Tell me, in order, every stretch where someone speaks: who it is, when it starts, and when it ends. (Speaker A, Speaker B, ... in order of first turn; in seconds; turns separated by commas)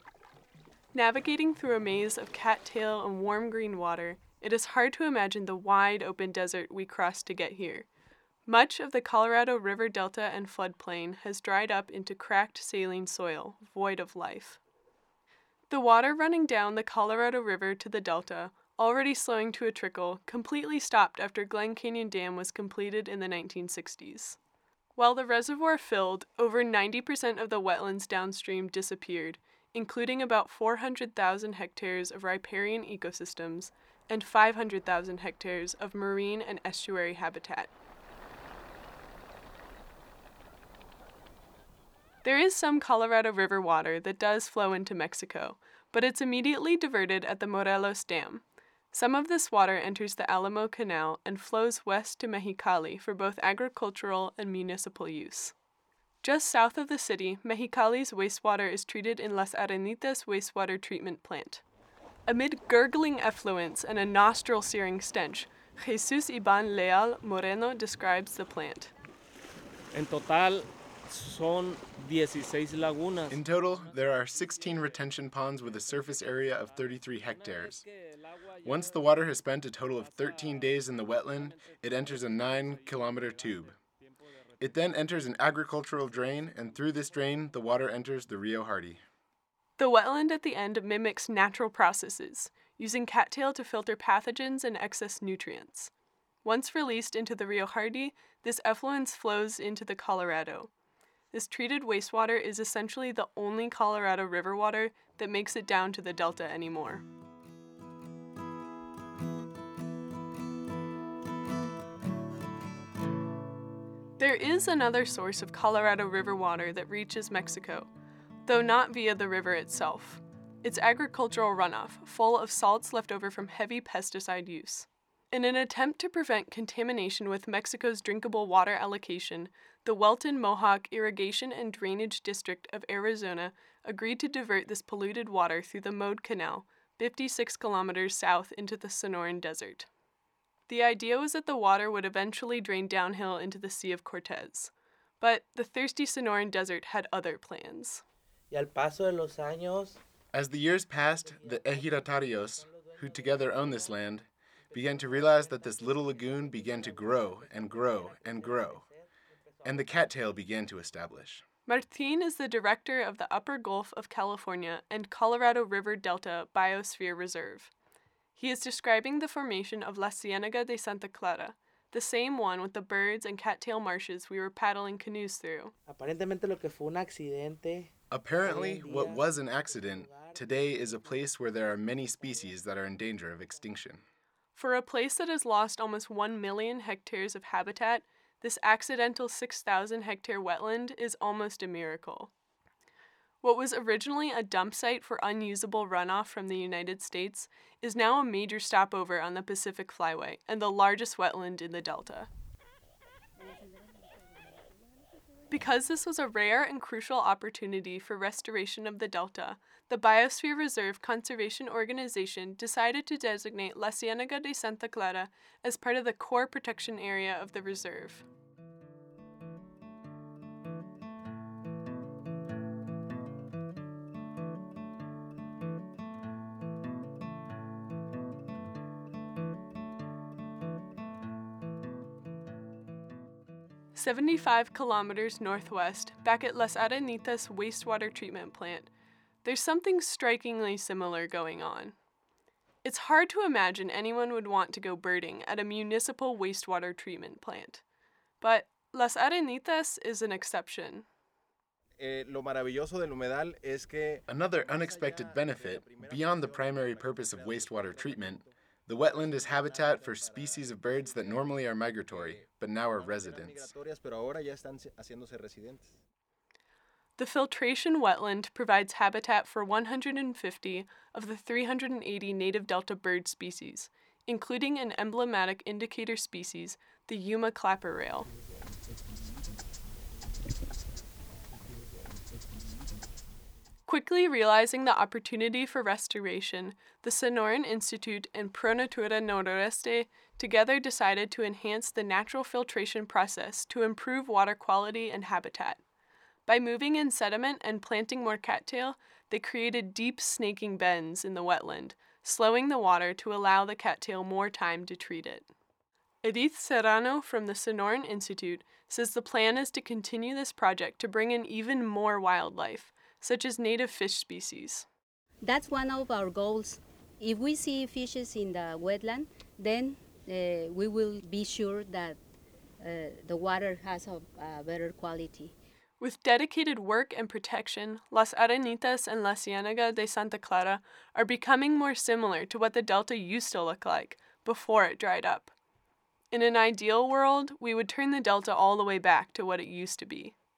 Speaker A: 0.9-7.9, Speaker A: 8.5-14.6, Speaker A: 15.7-24.4, Speaker A: 25.0-37.7, Speaker A: 42.2-55.5, Speaker A: 56.2-61.6, Speaker A: 62.3-68.9, Speaker B: 69.9-73.4, Speaker C: 73.3-77.8, Speaker C: 78.6-83.8, Speaker C: 84.6-89.0, Speaker A: 89.8-95.9, Speaker A: 96.5-100.7, Speaker A: 101.3-107.0, Speaker A: 114.2-117.9, Speaker A: 118.5-139.9, Speaker A: 140.7-148.0, Speaker D: 148.5-150.0, Speaker C: 150.3-158.9, Speaker D: 151.2-154.1, Speaker D: 154.7-158.9, Speaker D: 159.6-160.2, Speaker C: 159.6-161.4, Speaker A: 161.7-167.7, Speaker A: 168.4-175.7, Speaker D: 175.9-177.9, Speaker C: 178.1-184.0, Speaker D: 178.4-183.6, Speaker A: 184.6-192.3, Speaker A: 193.4-202.3, Speaker E: 203.4-204.5, Speaker A: 205.5-218.2, Speaker A: 233.9-238.9, Speaker A: 239.4-241.9, Speaker A: 242.8-247.8, Speaker A: 248.4-251.1, Speaker F: 252.0-258.5, Speaker C: 254.3-263.7, Speaker F: 259.0-261.6, Speaker F: 262.1-266.0, Speaker A: 267.2-278.3, Speaker A: 283.9-295.8, Speaker A: 296.5-305.5, Speaker A: 306.2-314.9, Speaker E: 315.4-322.2, Speaker E: 322.8-325.5, Speaker A: 326.0-335.5, Speaker A: 336.3-340.4